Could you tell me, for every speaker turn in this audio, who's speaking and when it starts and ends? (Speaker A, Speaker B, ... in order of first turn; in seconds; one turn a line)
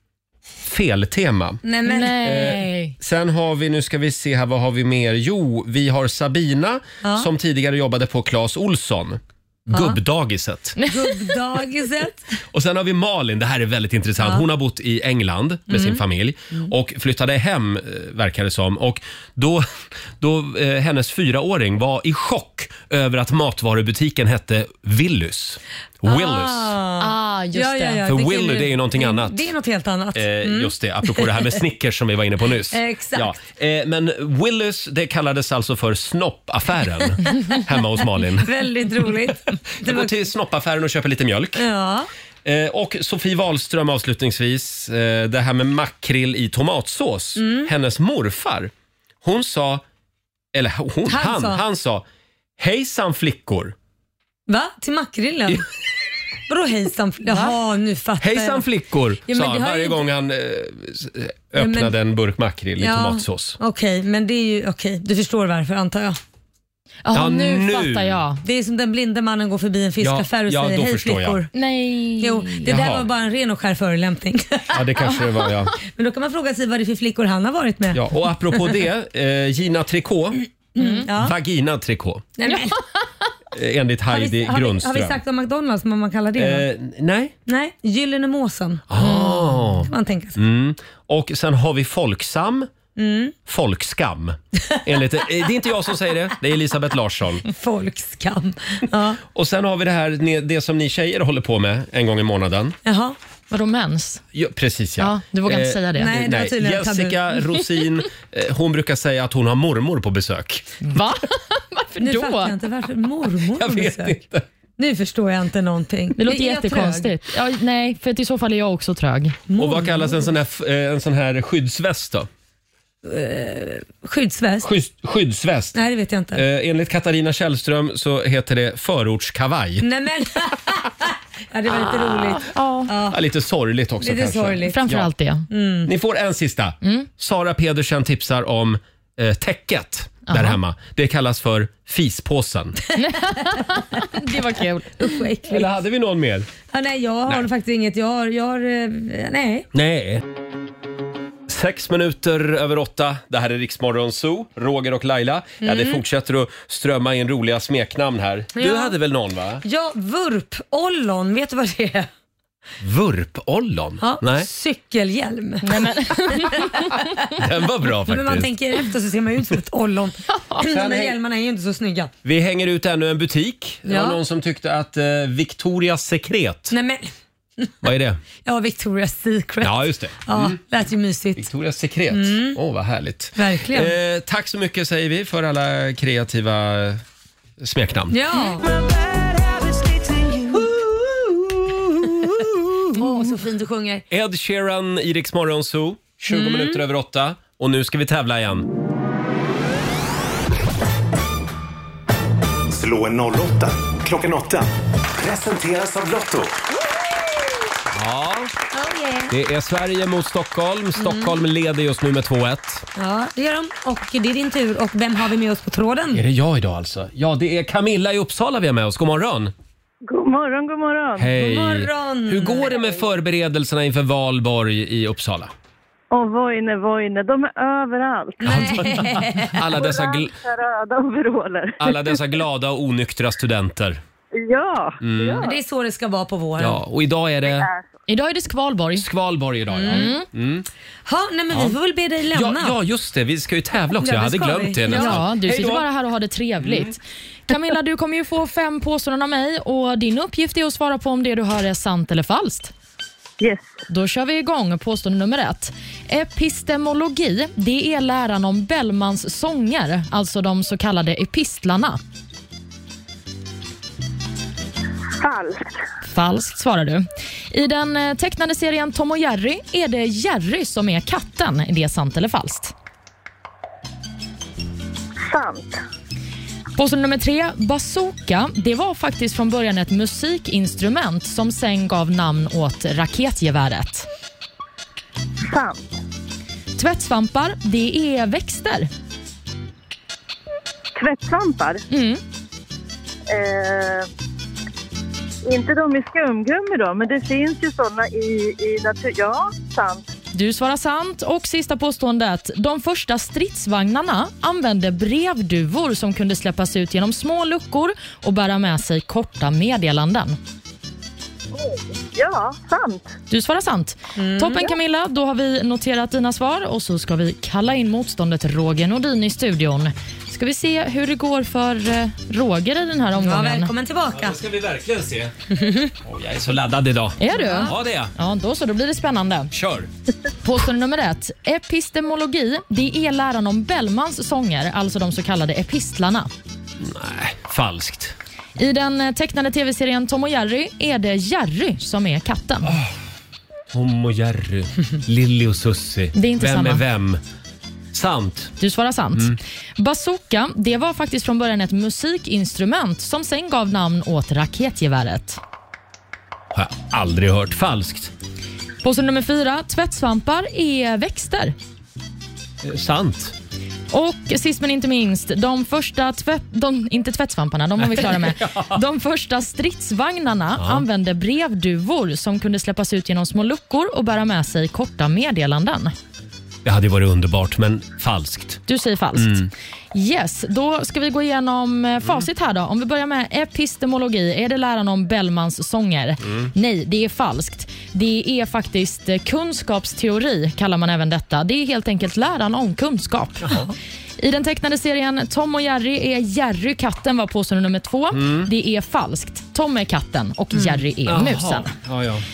Speaker A: 0.6-1.6
Speaker B: 1.6-2.6
Speaker C: 1.9-2.9
Speaker A: 2.2-10.8
Speaker B: 7.0-7.3
Speaker B: 9.7-10.0
Speaker C: 10.8-11.3
Speaker B: 10.8-12.3
Speaker A: 12.5-19.7
Speaker B: 14.2-14.4
Speaker A: 20.2-26.8
Speaker B: 26.0-31.4
Speaker C: 27.0-28.1
Speaker A: 28.1-29.5
Speaker A: 30.1-38.5
Speaker B: 32.7-33.3
Speaker B: 38.4-40.2
Speaker A: 39.8-41.6
Speaker B: 41.5-42.1
Speaker A: 42.4-48.7
Speaker B: 47.4-47.7
Speaker A: 49.2-49.8
Speaker A: 50.5-52.0
Speaker B: 51.1-51.6
Speaker A: 52.6-53.7
Speaker B: 54.5-55.7
Speaker B: 56.5-58.6
Speaker A: 58.2-63.6
Speaker B: 59.2-60.0
Speaker B: 61.5-61.9
Speaker B: 62.8-66.2
Speaker C: 67.0-68.4
Speaker A: 67.1-68.2
Speaker B: 68.4-71.5
Speaker A: 70.0-71.4
Speaker C: 71.5-72.7
Speaker B: 72.2-74.8
Speaker A: 72.7-73.1
Speaker A: 74.7-75.7
Speaker B: 75.8-78.0
Speaker A: 77.9-80.4
Speaker B: 80.8-81.3
Speaker C: 80.8-81.0
Speaker A: 81.1-82.3
Speaker B: 82.4-82.8
Speaker C: 82.5-82.8
Speaker A: 83.5-85.2
Speaker B: 84.1-86.7
Speaker A: 86.4-87.3
Speaker B: 87.5-88.9
Speaker A: 88.9-92.7
Speaker C: 89.0-89.6
Speaker B: 89.8-90.4
Speaker B: 93.0-93.3
Speaker A: 93.5-97.4
Speaker B: 94.8-95.2
Speaker B: 97.5-99.2
Speaker A: 99.2-102.8
Speaker B: 102.8-103.2
Speaker C: 103.5-104.2
Speaker A: 104.3-110.8
Speaker C: 105.0-106.1
Speaker B: 106.0-107.2
Speaker C: 110.8-112.5
Speaker B: 112.0-114.2
Speaker A: 113.5-114.4
Speaker B: 114.8-117.1
Speaker C: 116.2-119.4
Speaker B: 119.5-120.2
Speaker A: 119.5-122.3
Speaker B: 123.0-124.7
Speaker A: 124.6-125.8
Speaker B: 125.7-126.4
Speaker A: 126.3-129.8
Speaker B: 129.8-133.2
Speaker C: 132.1-132.9
Speaker A: 133.1-135.1
Speaker B: 134.0-134.8
Speaker C: 134.7-135.5
Speaker B: 135.5-135.9
Speaker A: 135.8-142.8
Speaker C: 136.8-137.1
Speaker C: 140.3-140.6
Speaker C: 143.0-145.2
Speaker B: 143.0-144.1
Speaker B: 145.0-145.7
Speaker A: 145.5-146.5
Speaker B: 146.7-149.7
Speaker A: 149.7-150.2
Speaker A: 151.5-159.6
Speaker B: 155.6-156.0
Speaker B: 158.5-158.9
Speaker B: 159.6-162.1
Speaker A: 162.8-164.5
Speaker B: 164.0-167.3
Speaker C: 165.6-166.9
Speaker A: 167.3-168.5
Speaker B: 168.1-172.1
Speaker C: 170.3-170.6
Speaker A: 170.6-171.2
Speaker A: 172.2-176.7
Speaker B: 173.8-174.2
Speaker B: 176.7-177.1
Speaker A: 177.8-178.2
Speaker B: 178.4-181.5
Speaker A: 179.6-180.6
Speaker A: 181.3-187.0
Speaker B: 182.1-182.6
Speaker B: 183.3-183.9
Speaker A: 187.6-188.2
Speaker B: 188.1-188.7
Speaker B: 190.2-190.6
Speaker A: 190.5-192.9
Speaker B: 192.9-194.1
Speaker A: 194.1-198.7
Speaker B: 196.3-196.8
Speaker D: 202.7-206.5
Speaker A: 207.9-208.5
Speaker B: 208.7-209.3
Speaker A: 209.3-212.8
Speaker B: 210.9-211.3
Speaker B: 212.9-216.2
Speaker A: 216.1-219.5
Speaker E: 220.0-221.3
Speaker A: 221.2-225.5
Speaker B: 221.3-223.1
Speaker E: 226.1-228.7
Speaker B: 228.4-229.6
Speaker A: 228.4-230.3
Speaker E: 229.7-232.2
Speaker A: 231.8-234.0
Speaker E: 234.3-235.6
Speaker A: 235.0-235.4
Speaker B: 235.4-236.8
Speaker A: 236.6-237.7
Speaker E: 237.4-237.8
Speaker C: 238.1-239.0
Speaker A: 239.0-240.7
Speaker B: 239.7-240.1
Speaker C: 239.9-240.3
Speaker B: 241.1-242.7
Speaker A: 242.3-245.8
Speaker B: 244.0-245.2
Speaker C: 244.9-247.0
Speaker A: 246.6-246.9
Speaker C: 247.5-252.7
Speaker E: 253.4-253.7
Speaker C: 253.9-262.0
Speaker E: 265.2-265.8
Speaker C: 266.1-272.7
Speaker E: 275.2-275.8
Speaker C: 276.8-284.1
Speaker E: 285.4-286.0
Speaker C: 286.7-288.9
Speaker E: 290.9-291.8
Speaker C: 291.9-292.2
Speaker E: 293.3-294.1
Speaker E: 295.4-300.1
Speaker C: 300.3-310.4
Speaker E: 311.5-313.1
Speaker C: 313.3-323.7
Speaker B: 314.1-314.7
Speaker B: 323.2-324.4
Speaker A: 324.1-325.3
Speaker B: 325.5-325.9
Speaker A: 326.0-328.1
Speaker C: 327.2-329.5
Speaker B: 327.3-327.7
Speaker A: 329.5-329.9
Speaker C: 330.4-336.3
Speaker A: 336.8-338.1
Speaker C: 338.6-342.7
Speaker A: 343.7-347.2
Speaker C: 346.1-346.8
Speaker A: 347.9-348.5
Speaker C: 348.6-355.4
Speaker A: 356.5-358.1
Speaker C: 358.8-361.5
Speaker A: 362.6-363.3
Speaker C: 363.9-375.9
Speaker A: 367.8-368.8
Speaker A: 370.6-370.8
Speaker A: 376.6-378.6
Speaker C: 378.7-393.6
Speaker A: 379.2-379.5
Speaker A: 382.0-382.2
Speaker C: 394.2-401.7
Speaker A: 398.1-398.5
Speaker A: 401.1-402.2